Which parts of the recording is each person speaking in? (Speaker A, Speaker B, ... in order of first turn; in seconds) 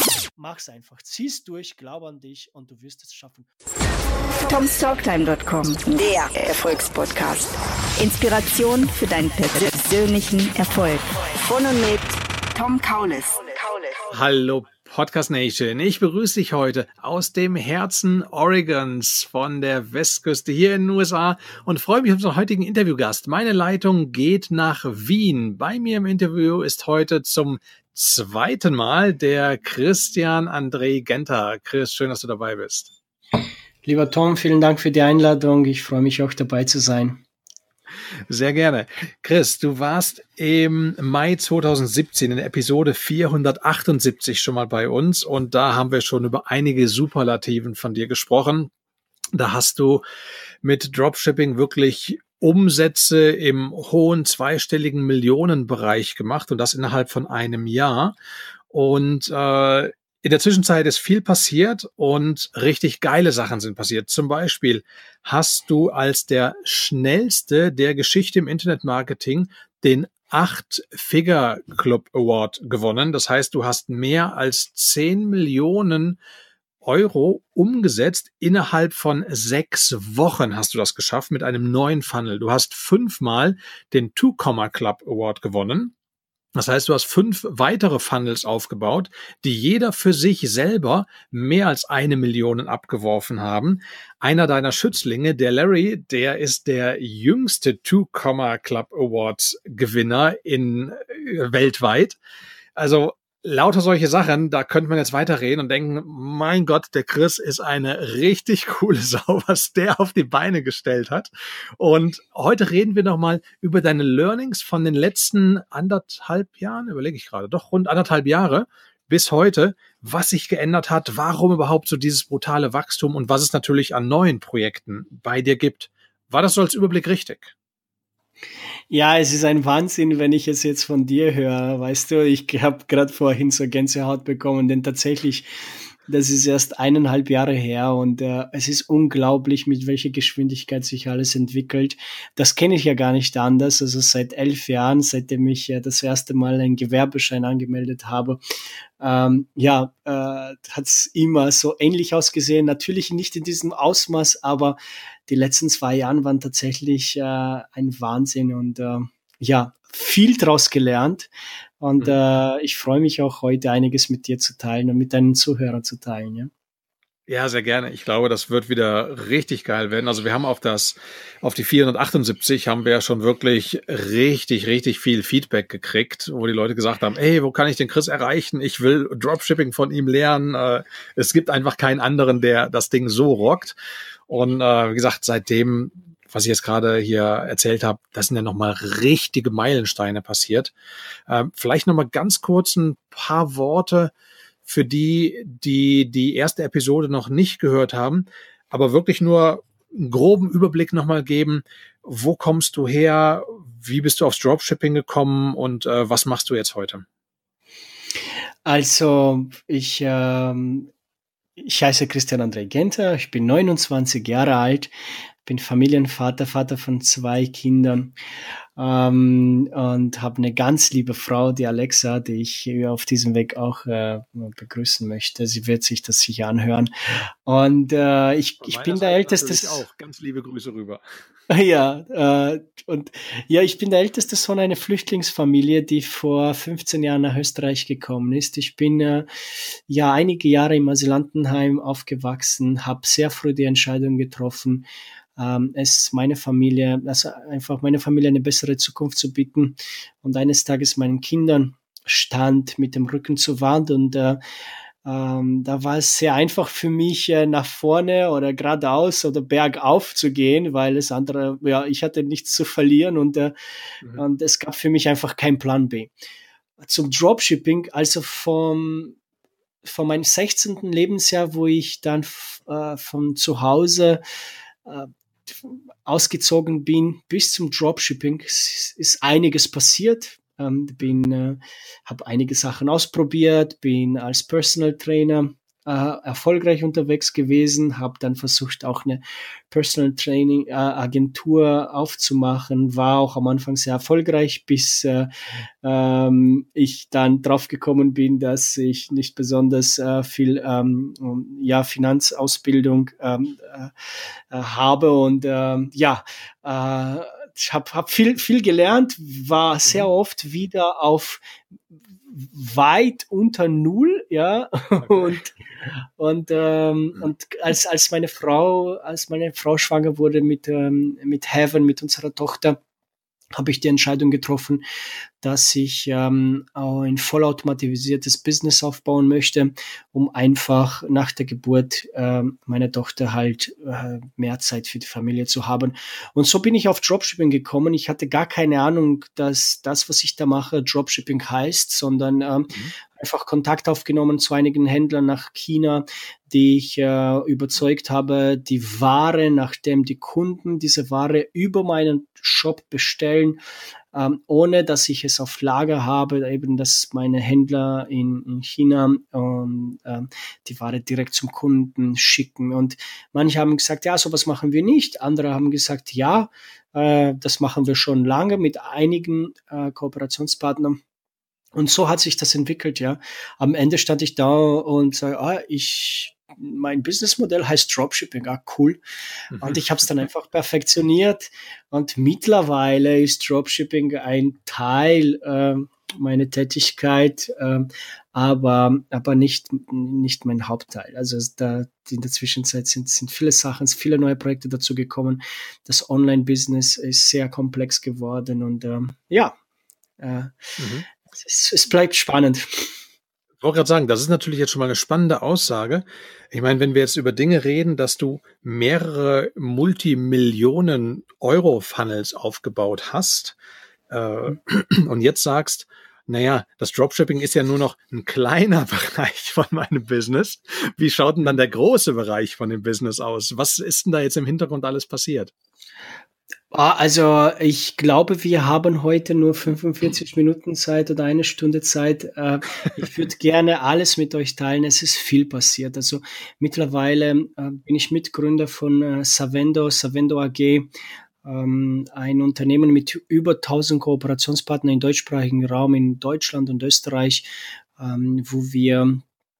Speaker A: 0.4-3.5, 33.8-37.2, 128.9-135.5, 136.1-148.4, 149.0-166.5, 208.6-210.9, 211.6-214.9, 215.4-218.2, 218.8-229.8, 231.5-254.4, 255.0-263.6, 264.1-266.1, 266.8-269.2, 269.8-274.2, 274.9-311.4, 312.3-322.8, 323.5-324.8, 325.4-353.6, 354.1-371.0, 371.7-379.0, 379.6-399.6, 400.2-400.8, 401.3-403.0, 426.7-440.9, 441.4-449.2
Speaker B: 4.4-14.1
Speaker C: 14.1-32.9, 38.3-48.7, 49.3-50.0, 50.6-58.1, 58.7-76.2, 76.8-85.9, 86.5-102.2, 102.8-127.5, 167.3-183.7, 184.3-190.7, 191.3-194.1, 194.6-207.0, 228.6-231.0, 315.0-315.3, 379.5-379.8, 400.8-401.1, 403.6-413.6, 414.1-425.5